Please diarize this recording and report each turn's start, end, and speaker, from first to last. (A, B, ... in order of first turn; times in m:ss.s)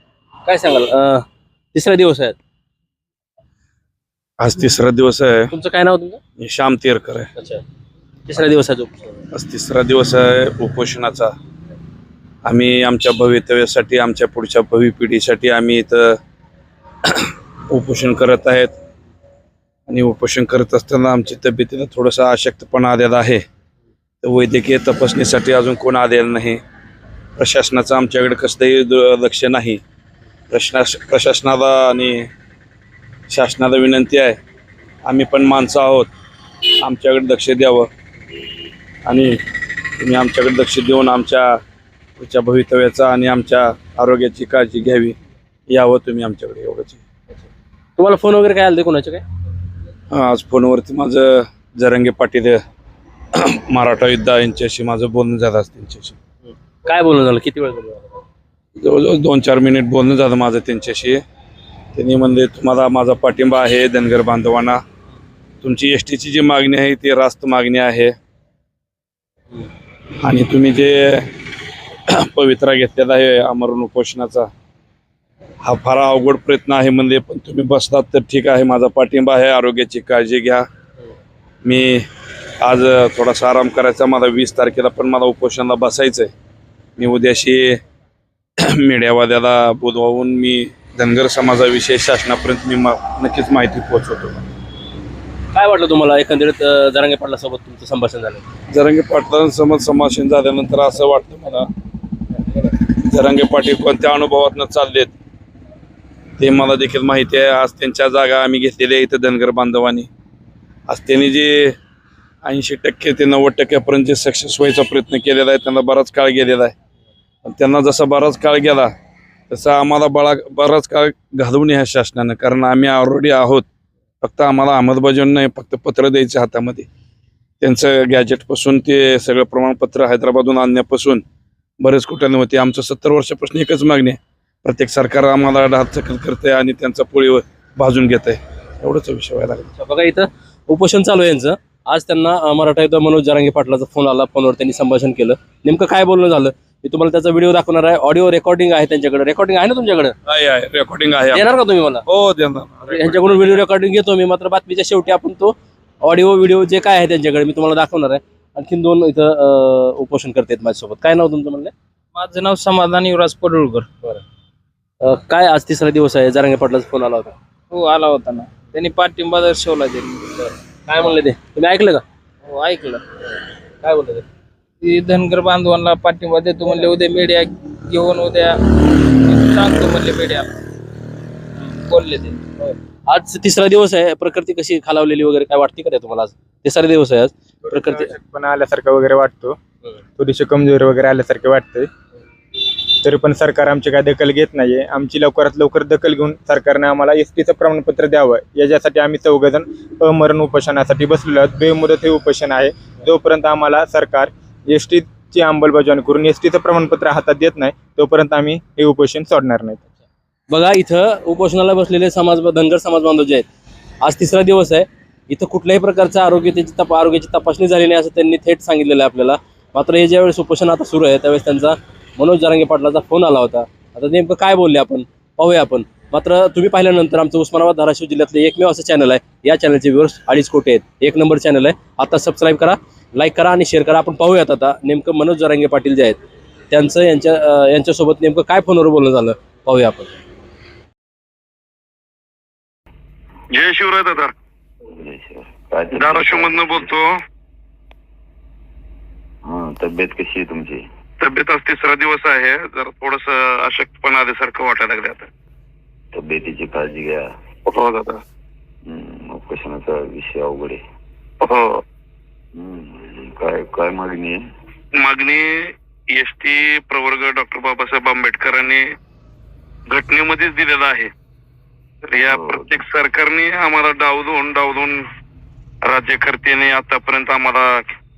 0:00.5-0:02.4 A
0:04.4-0:05.5 B
0:05.5-0:06.2 A
0:06.4-0:07.3 B
0:07.4-0:07.6 A
0:08.3-0:09.2 A
0:09.3-0:11.3 B
0:12.4-0:16.2 B
0:17.0-0:18.7 B
0:19.9-0:23.4 B
0:24.2-0:26.6 B
0:27.4-0:29.8 B
0:30.5-0:32.3 B
0:33.3-0:34.4 B
0:35.0-0:36.1 B
0:36.8-0:37.9 B
0:39.1-0:39.4 B
0:40.0-0:41.6 B
0:42.2-0:45.2 B
0:45.7-0:47.0 B
0:48.0-0:49.2 A
0:50.1-0:52.6 B
0:53.4-0:56.2 B
0:56.8-0:58.2 A
0:58.8-1:01.2 B
1:02.0-1:04.8 B
1:05.6-1:08.1 B
1:10.2-1:11.3 B
1:12.1-1:14.5 B
1:15.6-1:20.6 B
1:21.6-1:22.0 B
1:22.6-1:26.3 B
1:27.0-1:27.8 B
1:28.6-1:34.4 B
1:35.5-1:38.4 A
1:38.7-1:41.7 B
1:43.1-1:45.1 B
1:46.4-1:50.1 B
1:50.9-1:51.8 B
1:52.4-1:56.7 B
1:57.5-1:58.9 B
1:59.5-2:03.6 B
2:04.2-2:06.9 B
2:07.6-2:11.2 B
2:11.8-2:19.7 B
2:19.8-2:30.2 A
2:30.3-2:33.6 B
2:31.3-2:32.0 A
2:32.9-2:41.7 A
2:42.2-2:43.9 C
2:45.0-2:47.3 A
2:47.7-2:50.2 C
2:50.4-2:52.0 A
2:52.5-2:53.0 C
2:53.8-2:54.2 A
2:54.8-2:58.5 C
2:59.3-3:00.5 C
3:01.9-3:02.4 C
3:02.6-3:08.1 A
3:07.7-3:09.6 D
3:10.2-3:11.9 D
3:12.6-3:29.8 D
3:30.5-3:33.5 A
3:34.0-3:56.2 A
3:56.7-4:00.1 A
4:03.5-4:04.3 E
4:05.0-4:06.9 F
4:06.0-4:07.0 E
4:09.5-4:10.8 F
4:11.2-4:15.3 E
4:16.1-4:17.3 F
4:17.7-4:18.2 E
4:18.9-4:20.8 F
4:21.4-4:21.8 E
4:22.6-4:24.4 F
4:27.5-4:28.0 E
4:30.8-4:31.1 E
4:32.1-4:33.0 E
4:32.3-4:32.8 F
4:33.4-4:33.9 B
4:36.1-4:36.8 B
4:37.0-4:37.3 E